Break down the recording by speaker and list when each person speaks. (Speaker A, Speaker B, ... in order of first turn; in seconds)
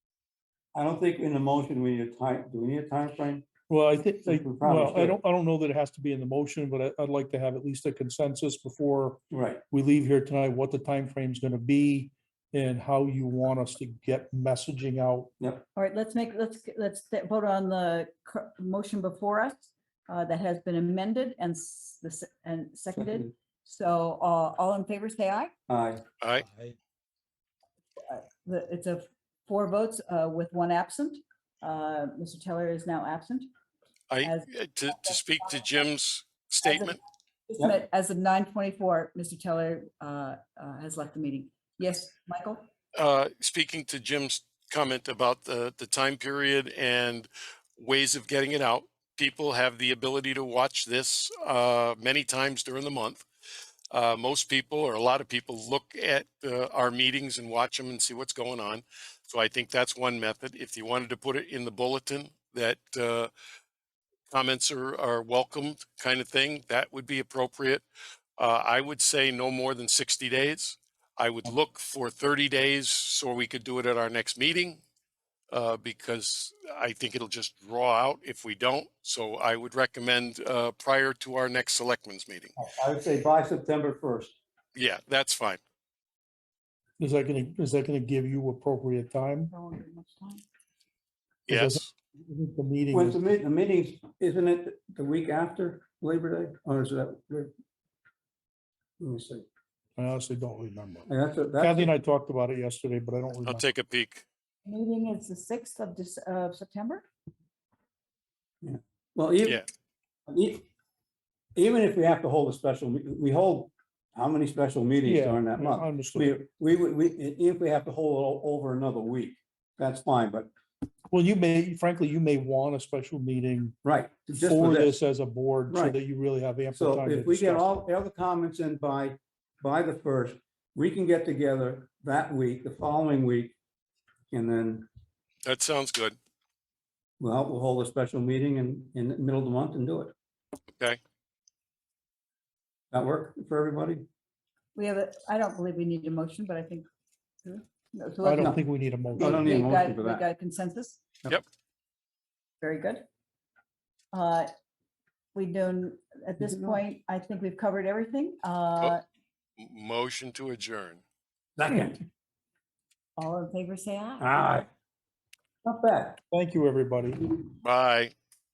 Speaker A: 0.7-3.5, 4.3-5.2, 9.3-9.6, 15.4-15.7, 23.0-23.3, 25.7-26.0, 82.6-84.3, 92.9-97.5, 99.0-99.5, 101.1-101.9, 108.6-109.6, 110.3-110.7, 111.5-120.5, 123.8-125.0, 125.7-126.0, 126.8-133.6, 134.3-134.9, 137.2-140.1, 142.9-144.1, 149.2-150.3, 161.6-162.0, 164.2-164.7, 165.6-166.2
Speaker B: 3.7-9.2, 9.7-15.3, 87.0-89.5, 91.5-93.2, 100.0-101.1, 101.6-103.6, 115.0-116.3, 121.1-123.8, 124.3-127.7, 148.2-149.6, 166.3-167.2
Speaker C: 15.8-25.5, 28.0-33.5, 34.2-35.2, 36.6-42.6, 89.5-90.4, 104.7-107.0, 144.8-146.9, 147.4-148.6, 149.2-151.2, 152.6-153.0, 154.1-154.5, 155.3-159.0, 163.2-164.4
Speaker D: 26.2-26.5, 34.1-37.0, 42.9-53.2, 53.9-63.3, 64.3-67.8, 68.4-74.8, 75.5-82.5, 84.8-85.6, 91.5-91.9, 103.5-104.2, 135.4-136.2, 159.6-161.0, 167.6-168.1